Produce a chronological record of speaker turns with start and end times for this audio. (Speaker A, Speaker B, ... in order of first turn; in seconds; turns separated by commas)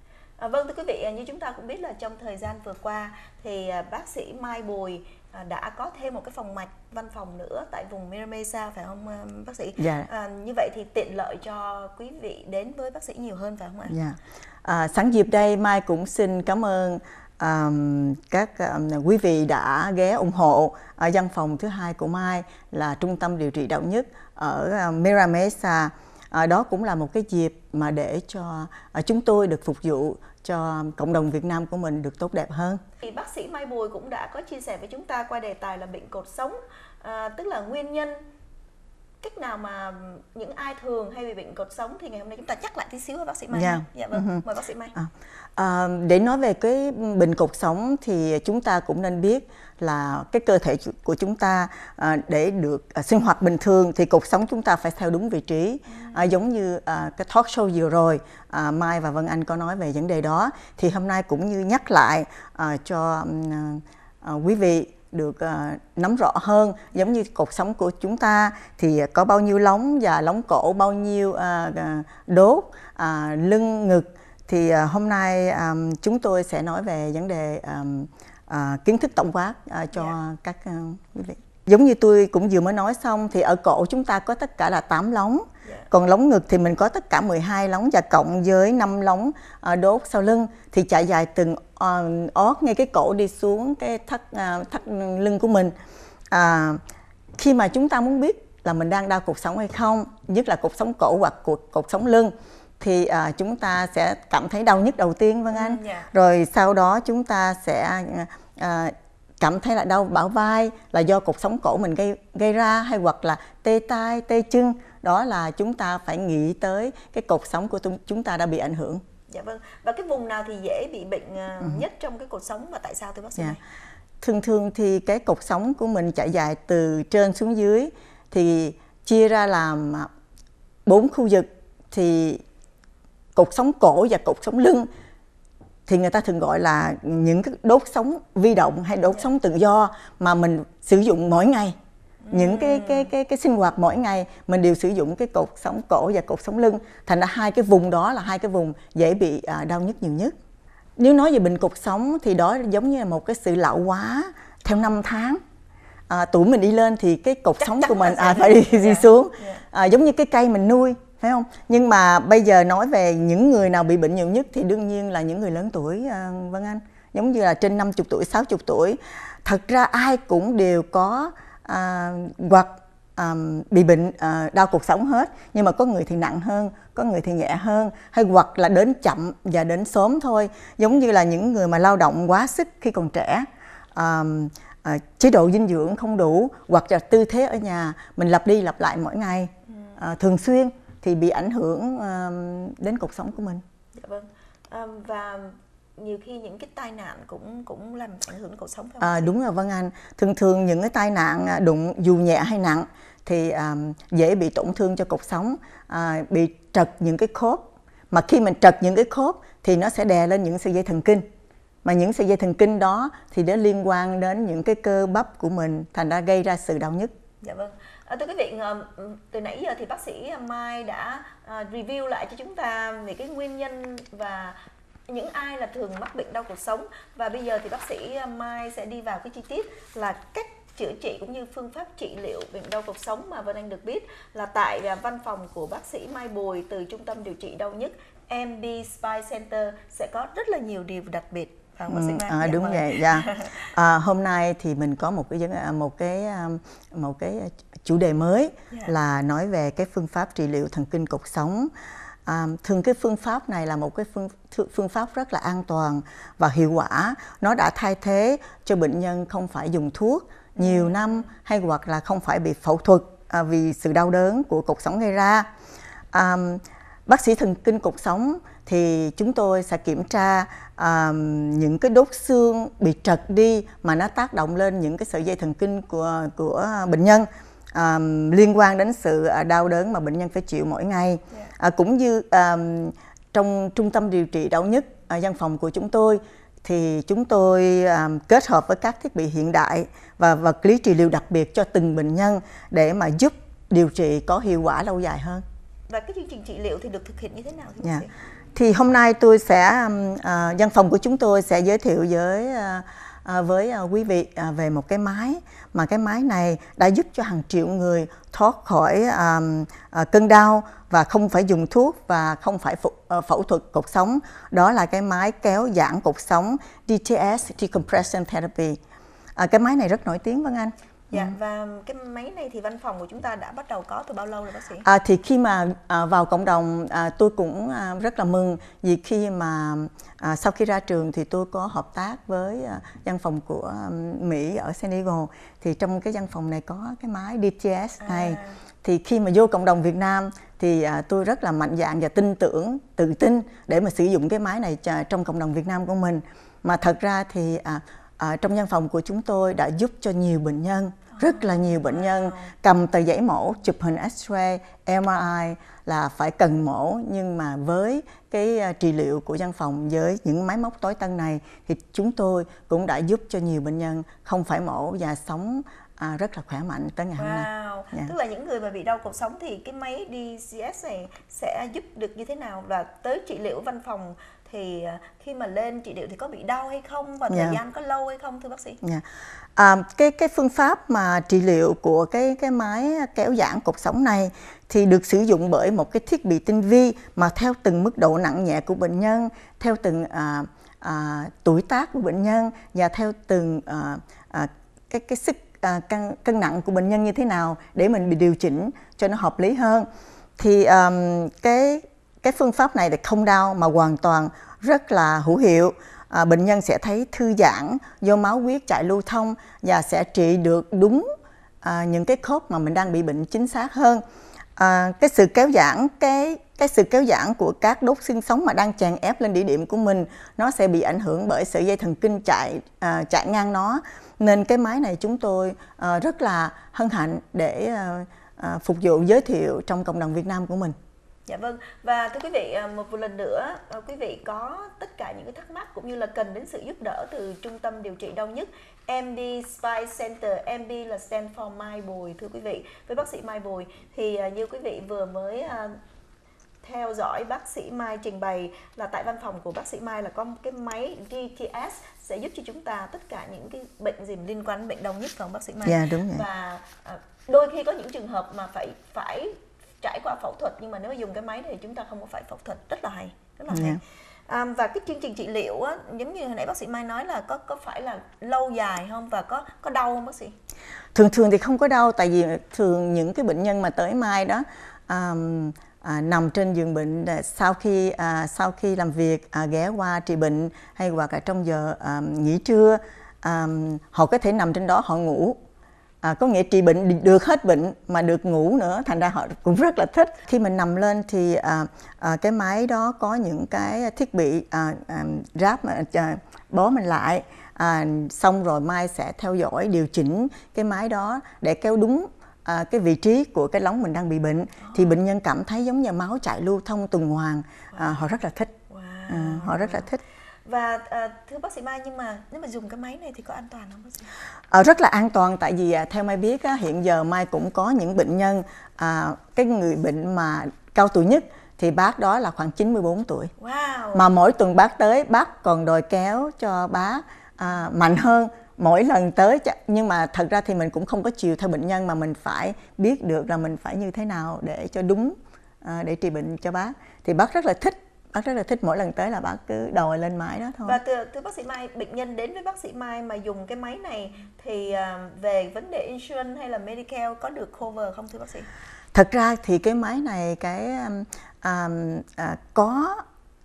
Speaker A: 0.4-14.0, Speaker B: 9.8-10.1, Speaker B: 13.9-32.8, Speaker A: 33.0-38.2, Speaker A: 39.2-45.0, Speaker B: 43.5-44.4, Speaker B: 45.0-95.7, Speaker A: 55.9-56.3, Speaker B: 96.3-96.8, Speaker B: 97.4-119.0, Speaker A: 105.5-106.1, Speaker A: 119.3-123.6, Speaker B: 124.2-130.1, Speaker B: 130.9-132.4, Speaker B: 133.3-134.9, Speaker B: 135.9-141.8, Speaker A: 142.2-143.1, Speaker B: 142.3-150.3, Speaker B: 151.0-155.4, Speaker B: 156.1-193.6, Speaker A: 157.6-159.6, Speaker A: 194.0-199.3, Speaker B: 199.0-211.2, Speaker B: 211.8-217.1, Speaker A: 217.4-224.6, Speaker A: 225.1-243.7, Speaker B: 241.9-251.7, Speaker B: 252.3-265.5, Speaker A: 260.6-261.2, Speaker B: 266.1-295.4, Speaker A: 295.9-298.1, Speaker B: 297.8-318.8, Speaker B: 319.4-321.3, Speaker A: 321.1-324.9, Speaker B: 324.8-368.1, Speaker A: 338.0-338.6, Speaker A: 351.2-352.5, Speaker A: 367.1-378.8, Speaker B: 377.3-377.6, Speaker B: 379.6-399.9, Speaker B: 400.4-411.1, Speaker B: 411.6-414.0, Speaker B: 414.6-430.8, Speaker A: 431.3-445.8, Speaker A: 446.6-470.4, Speaker B: 455.6-456.2, Speaker B: 463.5-463.8, Speaker B: 470.9-485.4, Speaker B: 486.0-508.5, Speaker A: 504.6-505.0, Speaker A: 508.7-509.9, Speaker B: 509.1-510.0, Speaker A: 510.4-514.1, Speaker B: 514.5-523.3, Speaker A: 523.4-524.0, Speaker B: 523.9-540.8, Speaker A: 540.6-548.5, Speaker B: 548.9-553.0